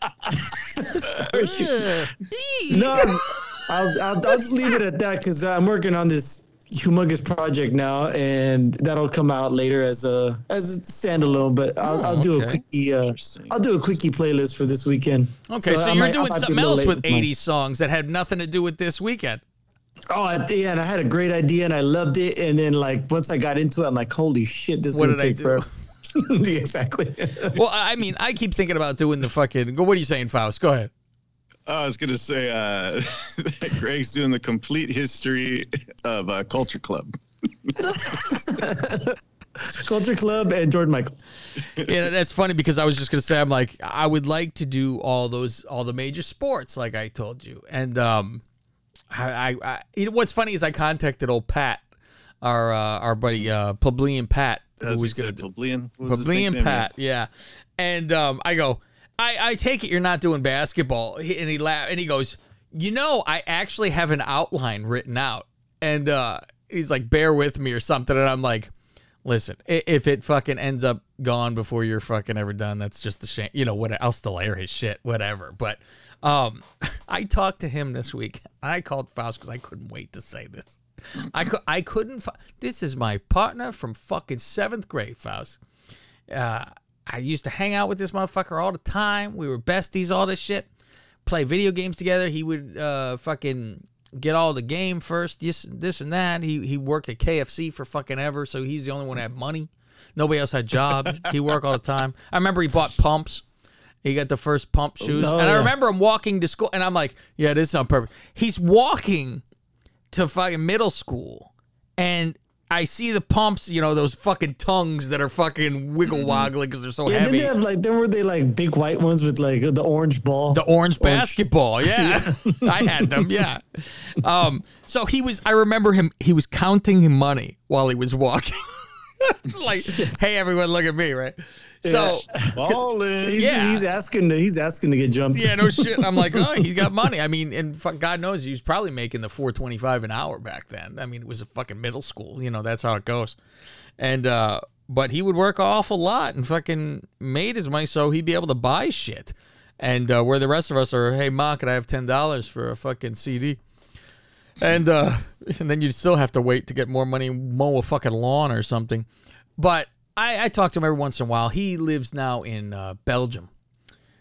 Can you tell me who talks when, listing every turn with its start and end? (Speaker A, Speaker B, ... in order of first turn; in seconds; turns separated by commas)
Speaker A: 0.3-1.6, Speaker B: 1.3-3.2, Speaker A: 2.7-17.3, Speaker B: 11.8-12.6, Speaker C: 13.0-13.6, Speaker B: 15.5-19.4, Speaker A: 20.1-27.6, Speaker B: 24.9-25.7, Speaker B: 27.5-30.9, Speaker C: 31.7-37.1, Speaker A: 37.8-41.1, Speaker B: 41.8-48.4, Speaker B: 49.1-51.8, Speaker B: 52.4-55.5, Speaker C: 54.8-56.9, Speaker B: 56.0-68.7, Speaker B: 69.2-85.6, Speaker B: 86.3-90.7, Speaker B: 91.2-103.4, Speaker B: 104.0-109.4, Speaker C: 105.0-105.3, Speaker A: 105.2-105.7, Speaker B: 110.1-117.5, Speaker C: 116.0-116.5, Speaker A: 117.0-123.2, Speaker B: 120.5-128.6, Speaker B: 129.2-132.2, Speaker A: 131.8-132.7, Speaker C: 132.5-133.5, Speaker A: 133.2-136.6, Speaker B: 133.3-133.8, Speaker B: 135.3-143.4, Speaker B: 144.0-153.6, Speaker B: 154.6-159.1, Speaker B: 159.6-163.5